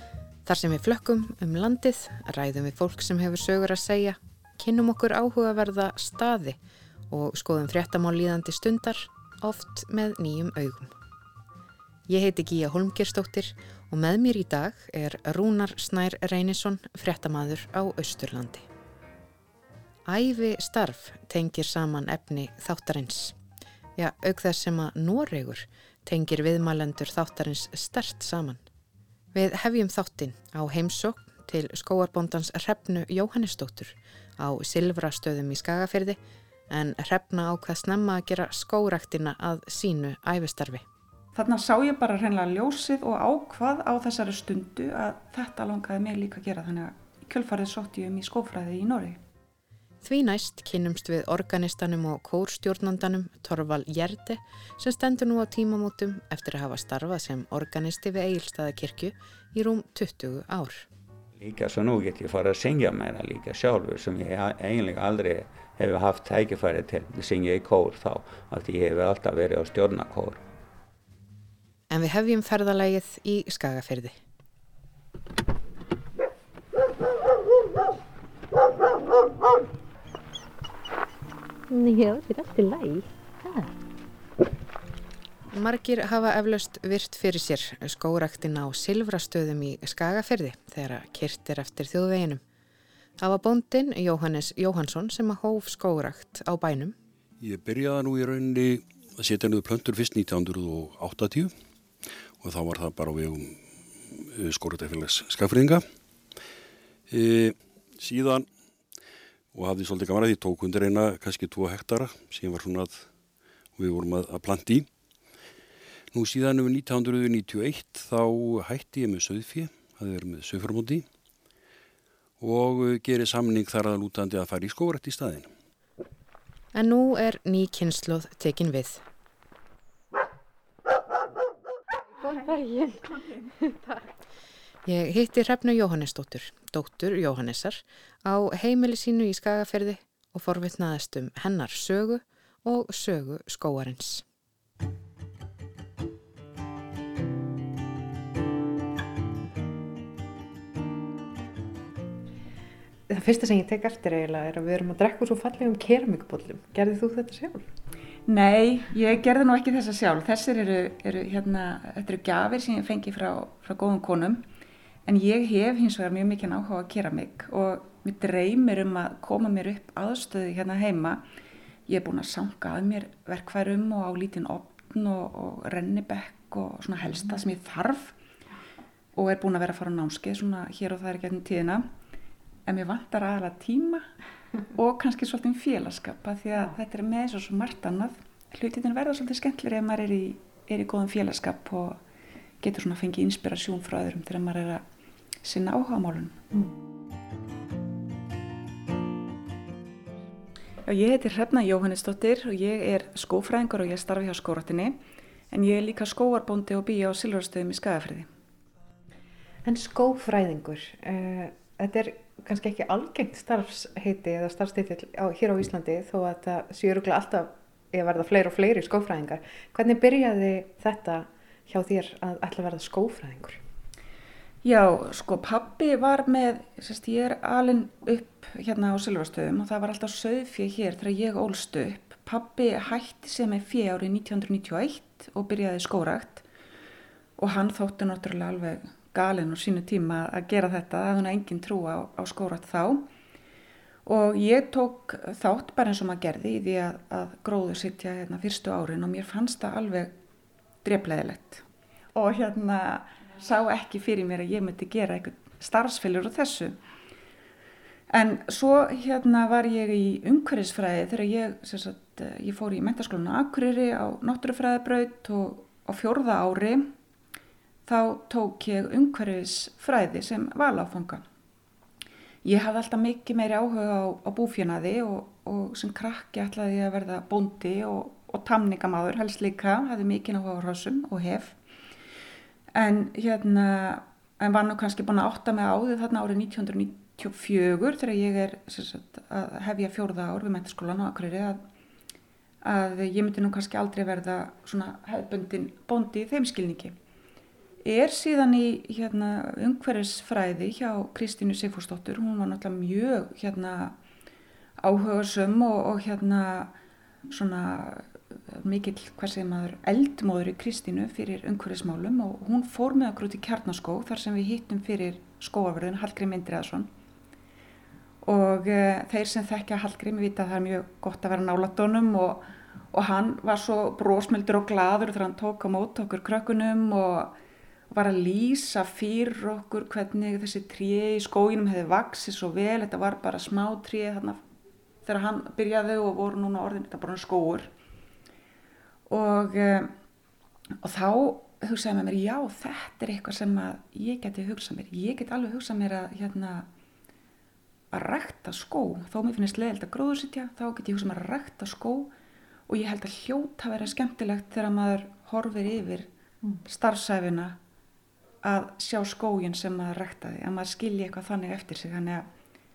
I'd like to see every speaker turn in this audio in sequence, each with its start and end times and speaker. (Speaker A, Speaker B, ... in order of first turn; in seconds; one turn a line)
Speaker A: 0.4-6.6
Speaker A: 7.1-10.9
Speaker A: 12.1-18.7
Speaker A: 20.1-23.4
Speaker A: 23.9-28.6
Speaker A: 29.3-36.2
Speaker A: 36.7-40.8
Speaker B: 41.3-49.2
Speaker A: 50.0-60.9
Speaker C: 61.4-70.4
Speaker A: 71.9-74.2
Speaker D: 81.7-83.7
Speaker A: 85.5-92.4
Speaker A: 93.2-97.0
Speaker E: 97.4-101.5
Speaker E: 102.4-105.8
Speaker E: 107.1-108.5
Speaker E: 109.5-113.1
Speaker E: 113.8-114.9
Speaker E: 116.1-121.0
Speaker E: 122.4-125.5
Speaker A: 126.7-129.0
Speaker D: 132.2-134.0
Speaker A: 134.8-144.2
Speaker A: 153.1-157.7
Speaker B: 158.3-164.4
Speaker B: 165.0-171.2
Speaker B: 171.9-178.2
Speaker B: 179.1-181.8
Speaker B: 182.7-184.1
Speaker B: 184.7-192.0
Speaker B: 192.6-194.8
Speaker B: 195.4-196.4
Speaker B: 200.8-205.0
Speaker B: 205.5-208.3
Speaker A: 209.6-223.6
Speaker B: 224.6-236.4
Speaker B: 237.4-243.1
Speaker B: 244.0-250.1
Speaker B: 250.8-256.8
Speaker B: 258.1-266.9
Speaker B: 267.9-271.2
Speaker B: 272.4-281.6
Speaker B: 282.7-291.6
Speaker B: 292.6-296.9
Speaker B: 297.8-303.9
Speaker B: 304.8-306.7
Speaker B: 307.3-316.9
Speaker B: 318.2-327.3
Speaker B: 327.9-334.4
Speaker B: 335.0-337.7
Speaker B: 339.1-339.9
Speaker B: 340.8-346.7
Speaker B: 347.9-352.1
Speaker B: 352.7-356.1
Speaker B: 356.6-357.6
Speaker B: 358.4-362.2